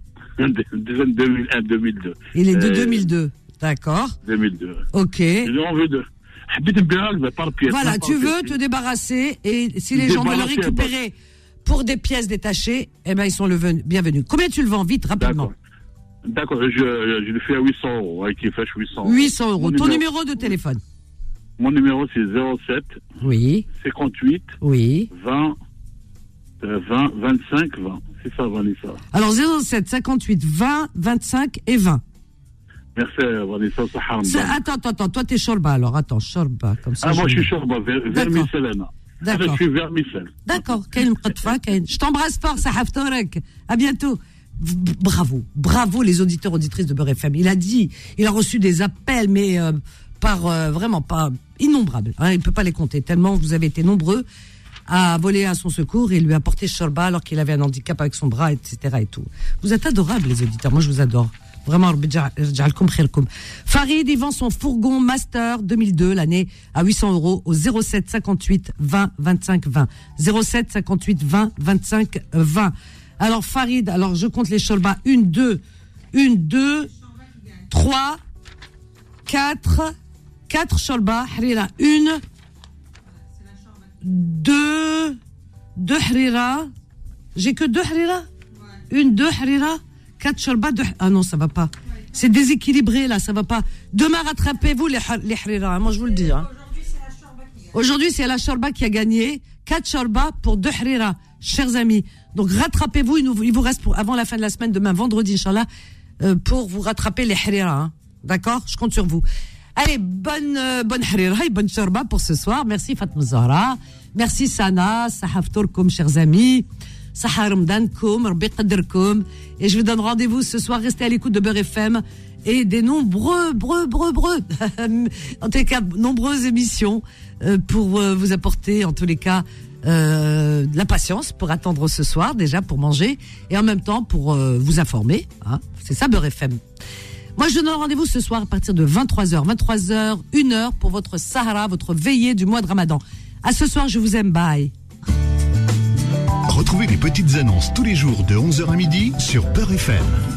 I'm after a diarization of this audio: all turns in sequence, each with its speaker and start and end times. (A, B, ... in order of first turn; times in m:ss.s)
0:00.4-0:03.1 A
0:02.3-0:04.2 B
0:04.2-0:04.9 A
0:04.9-0:05.5 B
0:05.4-0:08.6 A
0:07.6-0:11.1 B
0:09.9-0:10.9 A
0:11.6-0:15.5 B
0:15.2-0:15.5 A
0:16.3-0:20.5 A
0:19.0-0:20.8 B
0:21.6-0:23.0 A
0:23.2-0:23.7 B
0:23.7-0:24.6 A
0:24.6-0:25.1 B
0:25.1-0:25.6 A
0:26.6-0:29.0 A
0:29.1-0:32.0 B
0:32.9-0:34.6 A
0:34.2-0:37.5 B
0:37.0-0:40.6 A
0:38.1-0:38.5 B
0:39.2-0:39.6 B
0:40.4-0:54.2 B
0:54.9-1:15.6 B
1:16.1-1:16.9 B
1:17.7-1:18.2 B
1:19.3-1:19.9 B
1:20.5-1:22.2 B
1:24.0-1:25.2 B
1:25.8-1:26.7 B
1:27.3-1:28.3 B
1:28.9-1:36.5 B
1:37.7-1:45.7 B
1:46.2-1:49.2 B
1:49.8-2:16.6 B
2:17.4-2:24.7 B
2:26.5-2:30.2 C